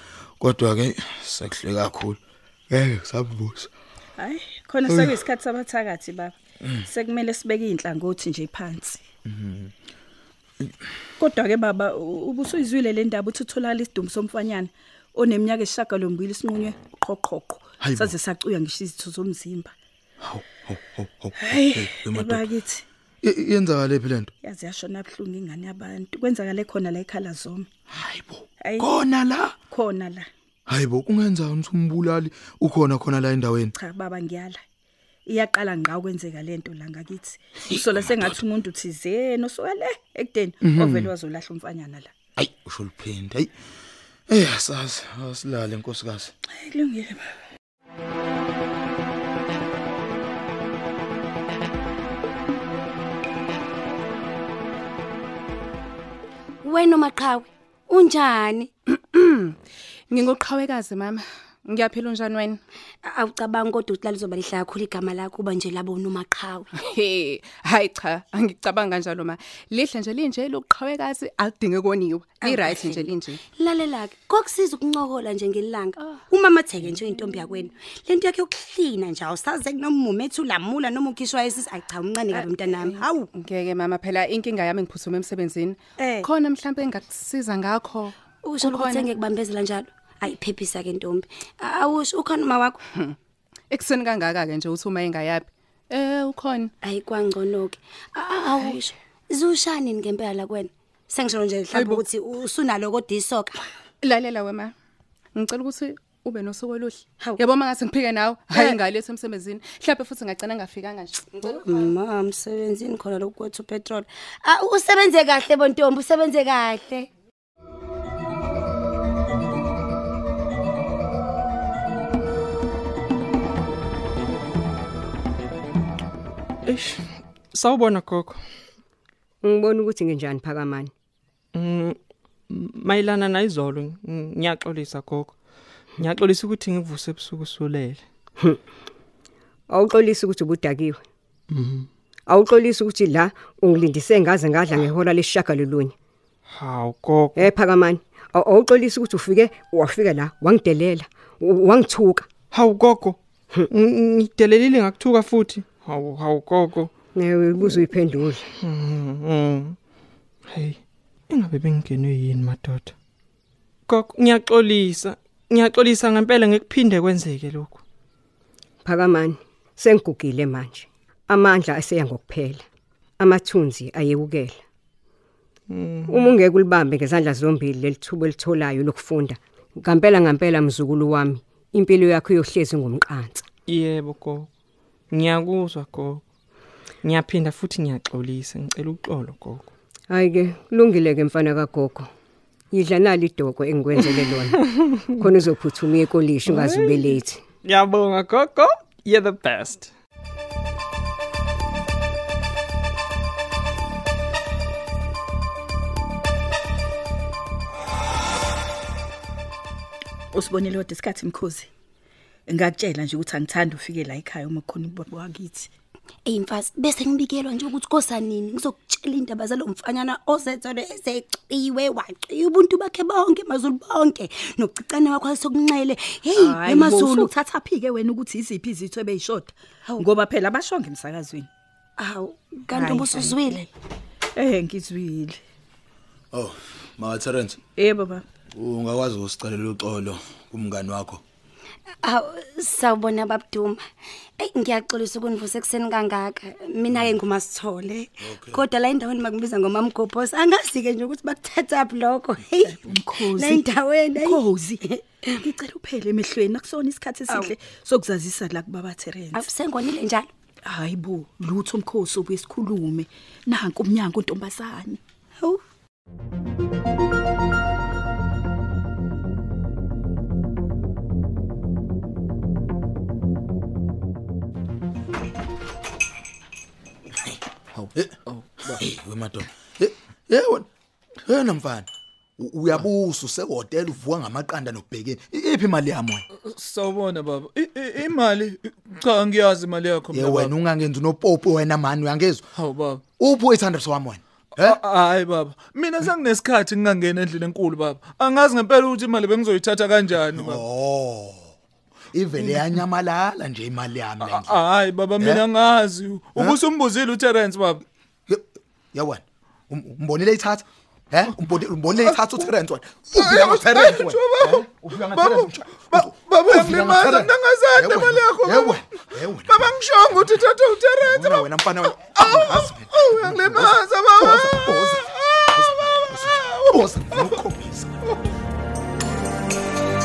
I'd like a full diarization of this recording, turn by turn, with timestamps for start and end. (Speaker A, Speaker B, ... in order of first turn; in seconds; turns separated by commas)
Speaker A: 0.4-3.7, Speaker B: 4.2-9.0, Speaker A: 9.3-9.7, Speaker B: 11.2-19.7, Speaker A: 17.8-18.1, Speaker A: 20.2-22.5, Speaker B: 21.4-22.8, Speaker A: 23.2-24.3, Speaker B: 24.4-27.7, Speaker A: 27.9-29.6, Speaker B: 28.6-28.9, Speaker B: 29.7-30.3, Speaker A: 30.7-33.8, Speaker B: 33.8-34.6, Speaker B: 35.3-42.1, Speaker A: 37.7-38.4, Speaker A: 40.6-41.1, Speaker A: 42.4-43.5, Speaker A: 44.3-46.3, Speaker B: 46.6-47.3, Speaker C: 56.6-58.7, Speaker D: 59.1-59.6, Speaker D: 60.1-62.6, Speaker C: 63.0-66.7, Speaker D: 66.8-73.4, Speaker C: 72.4-83.3, Speaker D: 82.4-89.1, Speaker C: 86.0-86.3, Speaker C: 88.4-92.8, Speaker D: 93.7-96.7, Speaker C: 96.8-103.6, Speaker D: 101.8-102.0, Speaker D: 104.0-104.7, Speaker D: 105.3-111.6, Speaker C: 111.4-117.1, Speaker E: 126.7-128.4, Speaker F: 129.4-130.9, Speaker E: 131.6-132.0, Speaker E: 132.5-135.3, Speaker E: 136.0-138.0, Speaker F: 139.7-141.0, Speaker F: 142.3-145.9, Speaker E: 146.5-147.5, Speaker F: 147.4-152.3, Speaker E: 152.5-156.9, Speaker F: 157.1-158.5, Speaker E: 158.6-159.7, Speaker E: 160.5-160.8, Speaker E: 161.3-162.9, Speaker E: 163.9-167.8, Speaker F: 168.8-172.7, Speaker F: 173.2-174.6, Speaker E: 175.7-176.4, Speaker F: 176.1-183.4, Speaker E: 183.7-184.5, Speaker E: 185.1-186.2, Speaker E: 187.0-189.7, Speaker F: 190.1-192.1, Speaker F: 192.7-194.6, Speaker E: 194.1-195.2, Speaker F: 195.2-197.4, Speaker E: 196.5-199.9, Speaker B: 210.3-211.7, Speaker B: 212.5-215.7, Speaker C: 216.3-227.3, Speaker B: 226.3-231.5, Speaker C: 232.0-233.7, Speaker B: 232.7-233.5, Speaker B: 234.3-235.4, Speaker A: 236.3-237.6, Speaker B: 237.8-238.2, Speaker A: 238.5-241.2, Speaker C: 242.0-243.8, Speaker C: 244.4-255.0, Speaker A: 248.3-248.6, Speaker B: 252.6-254.8, Speaker B: 255.4-259.5, Speaker C: 259.3-260.3, Speaker B: 260.7-265.0, Speaker G: 277.7-278.8, Speaker A: 278.7-280.7, Speaker A: 281.2-286.2, Speaker G: 286.3-290.5, Speaker A: 290.1-292.4, Speaker G: 292.6-293.0, Speaker A: 293.2-294.8, Speaker G: 294.6-300.6, Speaker A: 300.3-301.5, Speaker A: 302.1-304.6, Speaker G: 302.4-302.7, Speaker G: 304.2-307.8, Speaker A: 305.2-305.4, Speaker A: 308.3-320.4, Speaker G: 312.0-312.5, Speaker G: 313.1-327.4, Speaker A: 321.0-327.9